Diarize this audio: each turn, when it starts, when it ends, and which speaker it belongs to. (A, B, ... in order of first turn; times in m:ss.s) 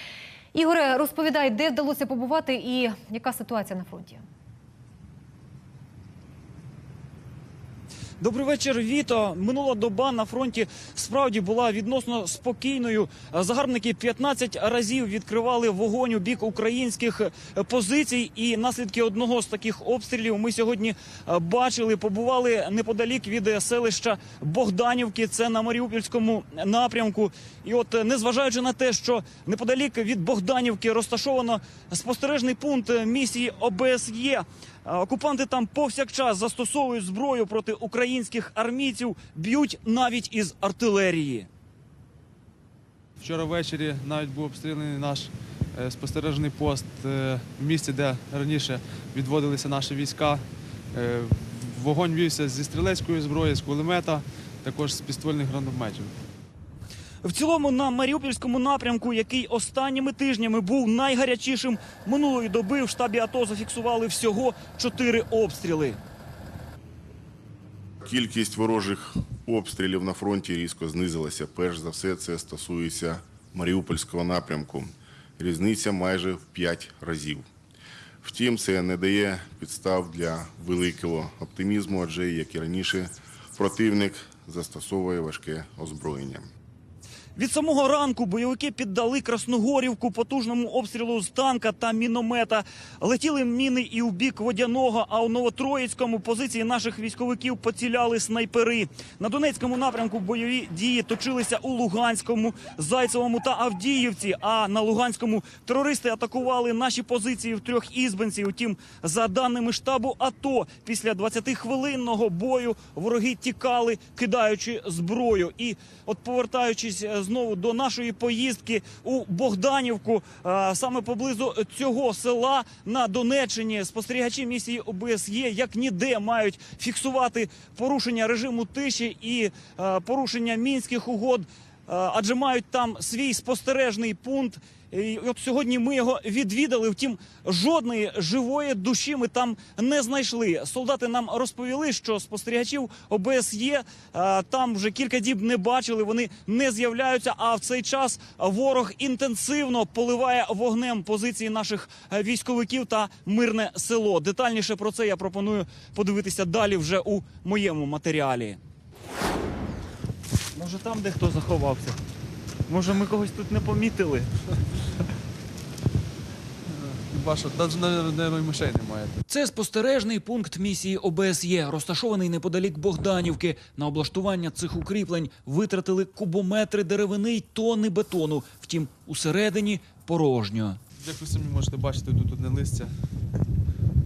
0:00.5-0:04.2 A
0:08.2-0:41.5 B
0:43.2-0:56.1 C
0:57.2-1:06.0 B
1:08.0-1:17.4 D
1:18.2-1:26.5 D
1:27.4-2:38.6 B
2:40.5-2:42.0 B
2:42.7-2:44.3 B
2:46.7-2:49.2 C
2:49.3-3:00.8 B
3:01.0-3:02.9 C